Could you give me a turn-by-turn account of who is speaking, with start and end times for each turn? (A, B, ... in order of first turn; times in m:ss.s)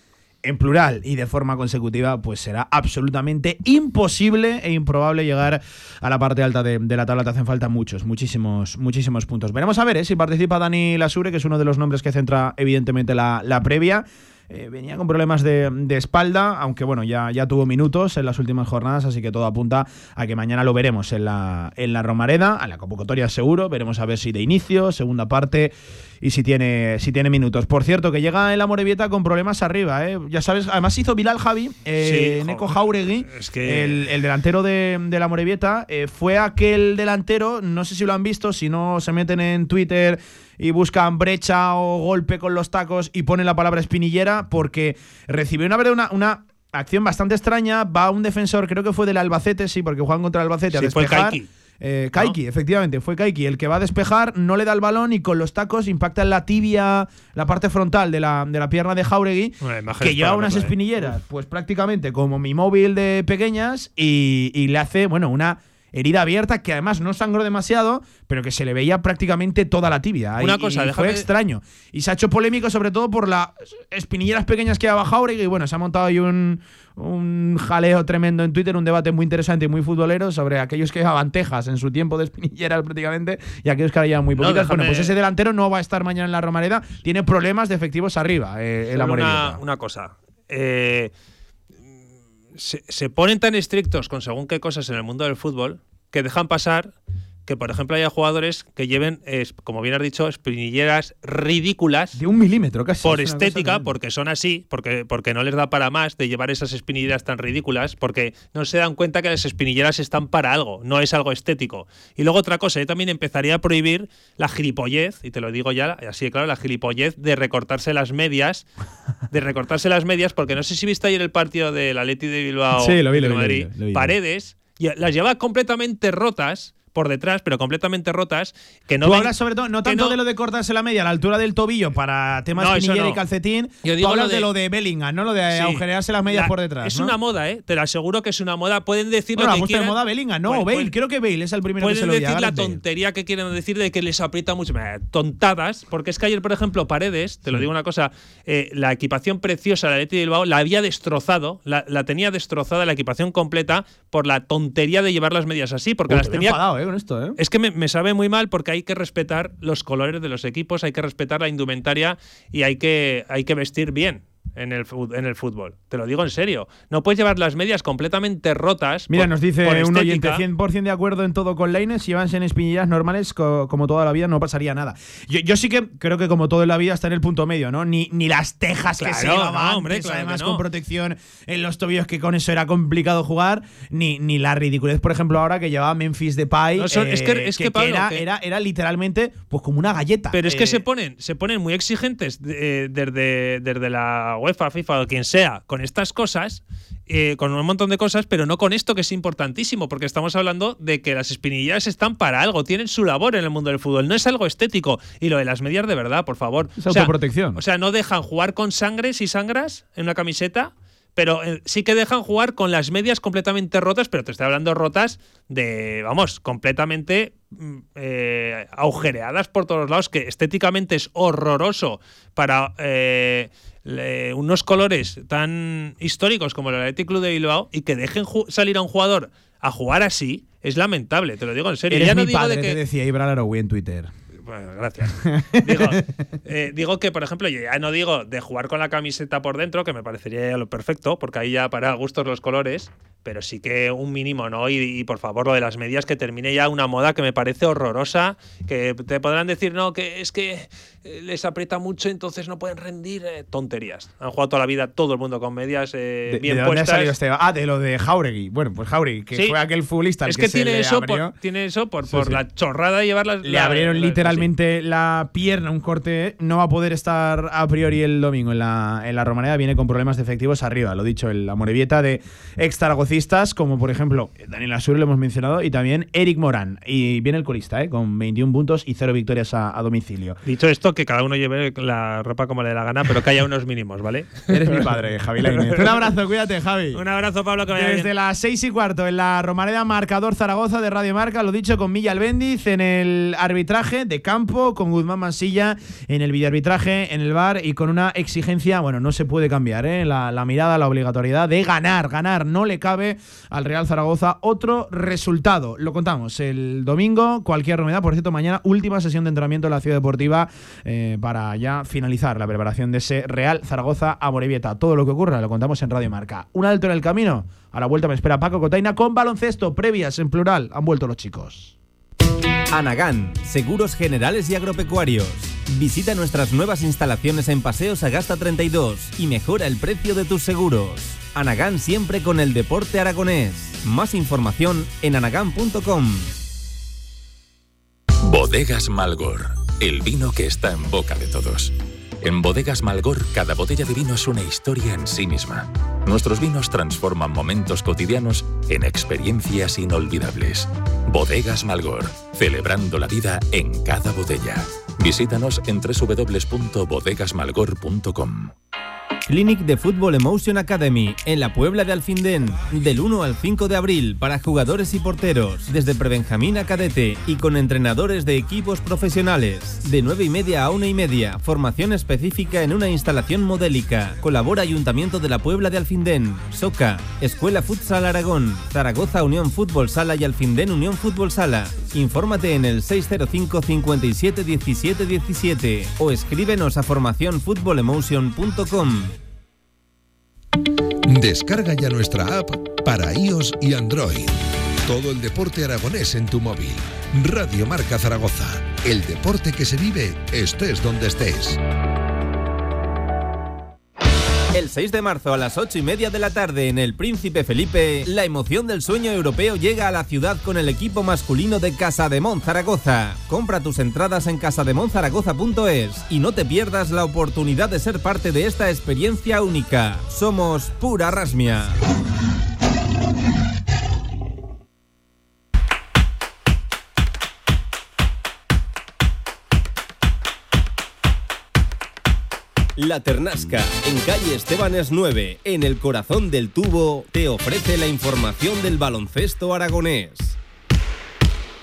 0:00.4-1:29.6 A
0:32.0-0:34.0 B
0:50.8-0:51.5 B
0:59.6-1:00.8 B
1:10.4-1:11.3 B
1:24.4-1:25.1 B
1:28.9-1:31.1 B
1:32.6-1:36.9 B
1:37.5-1:42.2 B
1:42.2-1:43.9 A
1:43.0-1:58.7 B
1:59.3-2:10.2 B
2:02.8-2:04.1 A
2:09.0-2:17.1 A
2:12.6-2:13.2 B
2:13.8-2:14.5 B
2:15.5-2:20.9 B
2:19.4-2:22.8 A
2:21.8-2:36.6 B
2:36.1-2:37.4 A
2:37.4-2:50.4 B
2:49.1-3:10.8 A
2:59.0-3:00.6 B
3:06.8-3:08.2 B
3:10.3-3:52.8 B
3:26.8-3:27.6 A
3:51.9-3:54.1 A
3:54.5-4:17.1 B
3:55.2-3:56.0 A
4:16.3-4:21.3 A
4:20.3-4:24.5 B
4:22.1-4:22.4 A
4:23.4-4:40.4 A
4:40.4-4:44.5 B
4:44.5-4:47.0 A
4:45.5-4:46.1 B
4:46.9-4:48.1 B
4:47.7-5:21.8 A
5:22.7-5:36.3 C
5:38.2-5:58.5 D
5:59.3-6:29.2 C
6:31.1-6:41.6 E
6:44.5-7:01.8 C
7:12.8-7:20.4 C